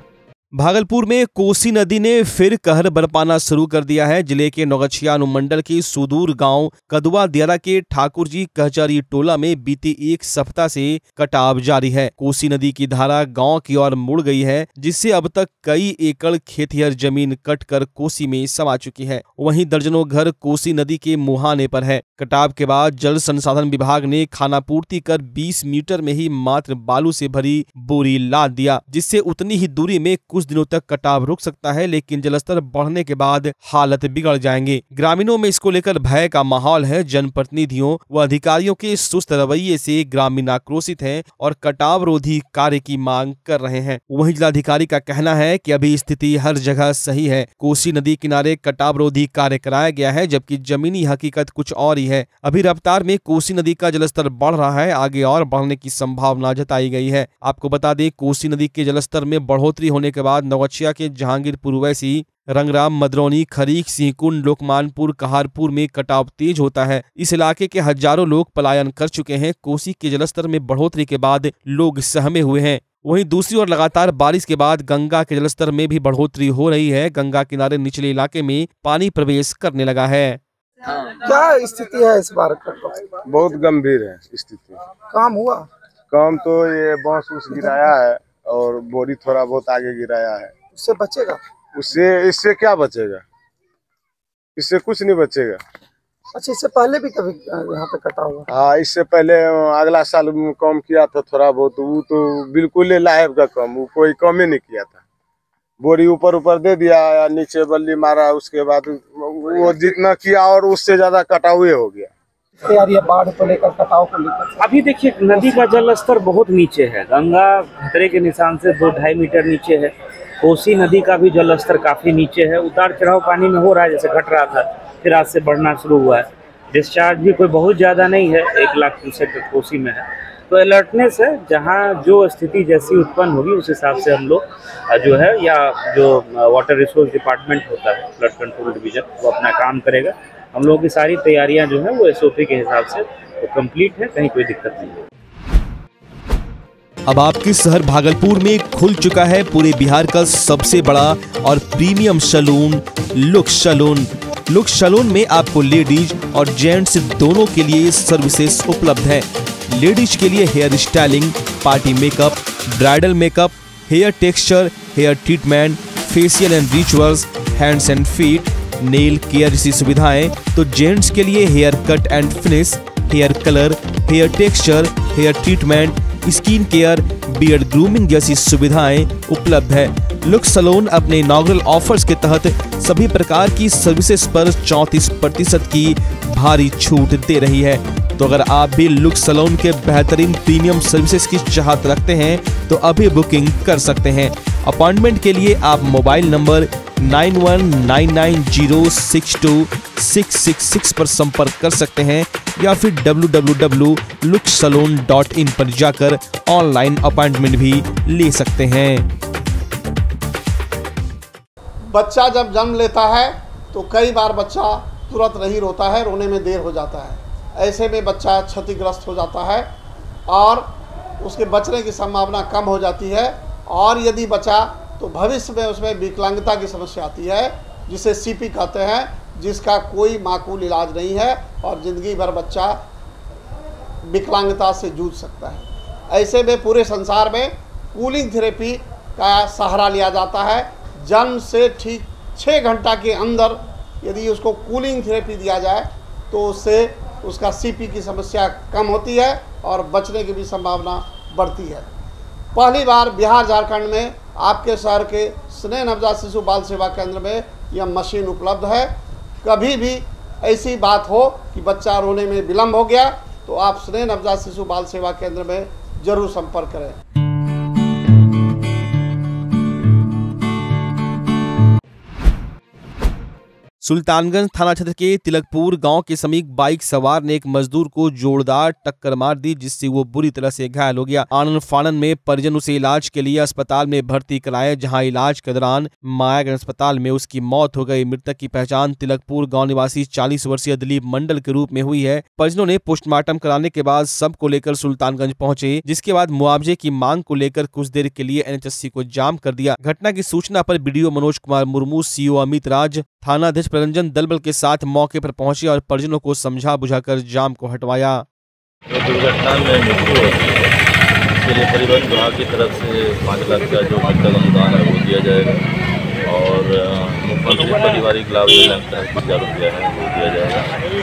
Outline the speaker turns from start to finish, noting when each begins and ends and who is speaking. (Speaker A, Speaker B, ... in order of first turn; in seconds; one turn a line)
Speaker A: 0.6-80.4
Speaker B: 81.2-83.2
Speaker C: 83.3-84.8
Speaker B: 85.1-85.7
Speaker C: 86.1-90.5
Speaker B: 87.5-87.9
Speaker B: 90.7-91.4
Speaker C: 91.7-93.2
Speaker C: 94.6-95.6
Speaker B: 96.3-98.5
Speaker C: 98.5-105.0
Speaker C: 105.8-112.1
Speaker B: 112.6-115.6
Speaker D: 114.6-119.9
Speaker D: 120.4-145.0
Speaker A: 147.1-209.1
Speaker E: 211.9-219.7
Speaker E: 220.3-220.7
Speaker E: 221.2-232.8
Speaker E: 234.1-251.8
Speaker E: 252.5-258.9
Speaker E: 259.4-266.9
Speaker A: 273.8-308.2
Speaker F: 308.9-310.8
Speaker F: 311.4-315.6
Speaker F: 316.2-320.7